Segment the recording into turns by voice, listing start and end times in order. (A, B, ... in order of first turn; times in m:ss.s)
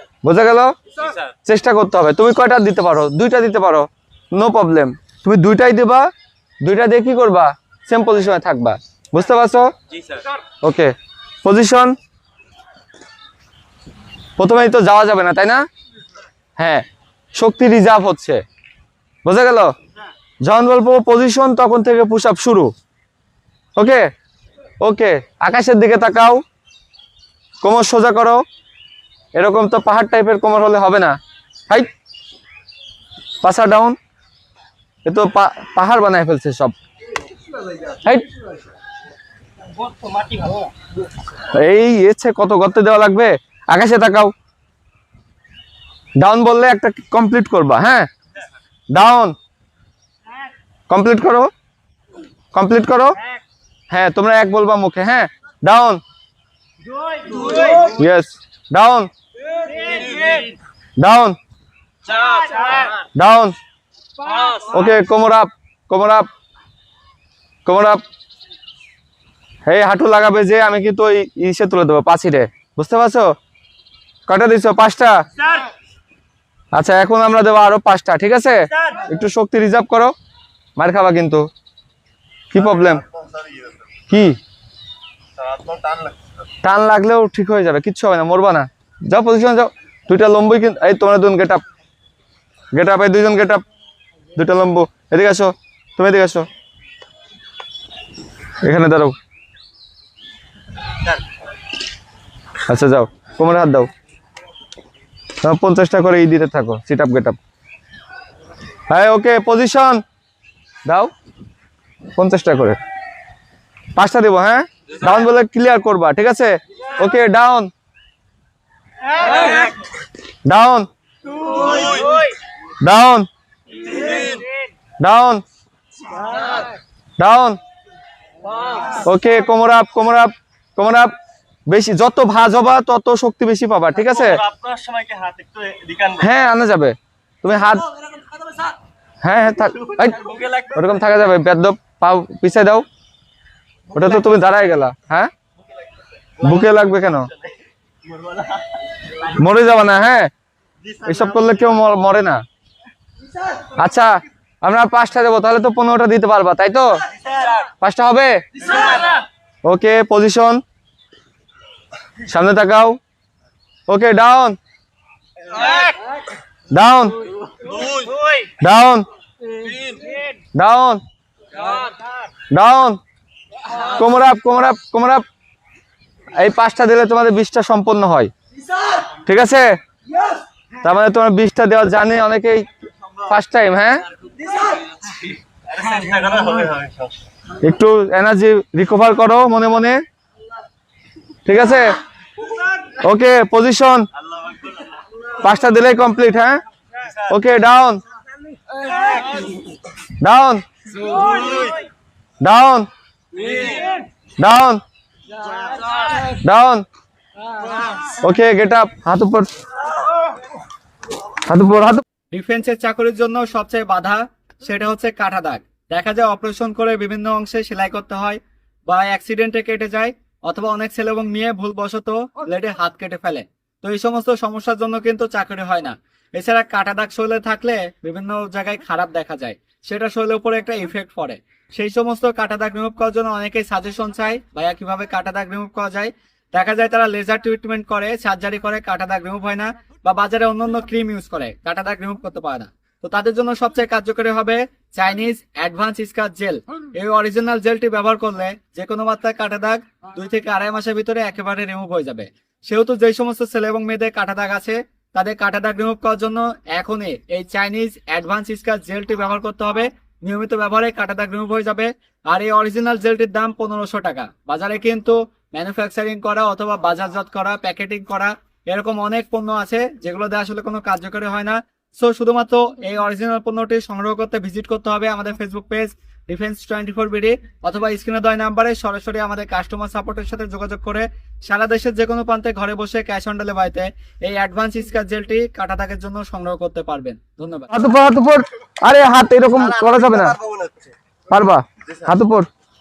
0:00.2-0:00.7 A
0:01.4-0:06.1 A
0:06.6-0:09.7 A
0:10.6-0:11.9 A
0:14.4-0:15.6 A
0:16.6-0:18.4 A
0:19.2-0:19.7 A
0:20.4-0:22.7 A
0:23.8-0:24.0 A
0:24.8-0:26.4 A
0:27.6-0:28.4 A
0:29.3-0:31.2 A
0:33.4-0:34.0 A
0:35.0-0:36.7 A
0:40.0-0:40.6 B
0:41.5-0:44.3 A
0:46.2-0:48.1 A
0:48.9-0:49.3 A
0:50.9-0:51.5 A
0:52.5-0:53.2 A
0:53.9-0:56.0 A
0:57.7-0:59.1 A
1:01.0-1:01.4 A
1:03.1-1:03.5 A
1:04.7-1:06.3 A
1:07.6-1:08.0 A
1:09.6-1:13.3 A
1:14.3-1:15.2 A
1:16.7-1:20.1 A
1:20.8-1:21.5 A
1:22.5-1:23.0 A
1:22.6-1:23.8 B
1:24.1-1:24.4 A
1:25.4-1:26.3 B
1:26.6-1:31.6 A
1:32.7-1:33.6 A
1:34.4-1:36.4 A
1:38.6-1:39.1 A
1:42.7-1:43.9 A
1:45.4-1:47.4 A
1:48.9-1:50.0 A
1:50.8-1:51.1 A
1:52.1-1:52.8 A
1:54.0-1:57.7 A
2:00.4-2:00.9 A
2:01.6-2:02.0 B
2:02.8-2:03.3 A
2:05.0-2:05.4 A
2:07.2-2:07.6 A
2:08.9-2:11.1 A
2:11.7-2:14.4 A
2:14.0-2:16.3 B
2:16.2-2:17.9 A
2:19.2-2:22.8 A
2:20.0-2:20.7 B
2:23.9-2:25.3 A
2:26.4-2:27.3 A
2:28.0-2:28.6 B
2:29.3-2:30.3 A
2:30.8-2:31.5 B
2:31.0-2:32.4 A
2:33.8-2:37.0 A
2:37.8-2:38.7 A
2:39.6-2:40.6 A
2:42.3-2:43.0 A
2:43.9-2:44.6 A
2:46.7-2:47.2 A
2:47.6-2:48.1 B
2:48.6-2:49.0 A
2:50.5-2:51.0 A
2:52.5-2:53.0 A
2:53.8-2:55.2 A
2:56.3-2:58.3 A
2:59.2-2:59.7 A
3:00.8-3:02.7 A
3:03.3-3:04.0 A
3:05.7-3:07.2 B
3:07.6-3:10.0 A
3:11.4-3:12.0 A
3:13.0-3:14.1 A
3:14.4-3:14.8 B
3:15.4-3:16.6 A
3:17.2-3:18.0 A
3:20.2-3:20.6 A
3:21.0-3:21.8 B
3:22.4-3:22.9 A
3:24.4-3:24.8 A
3:26.4-3:26.8 A
3:28.2-3:29.5 A
3:31.4-3:32.0 A
3:32.3-4:47.7 C
4:47.7-4:50.4 A
4:49.5-4:50.9 B
4:51.3-4:52.5 A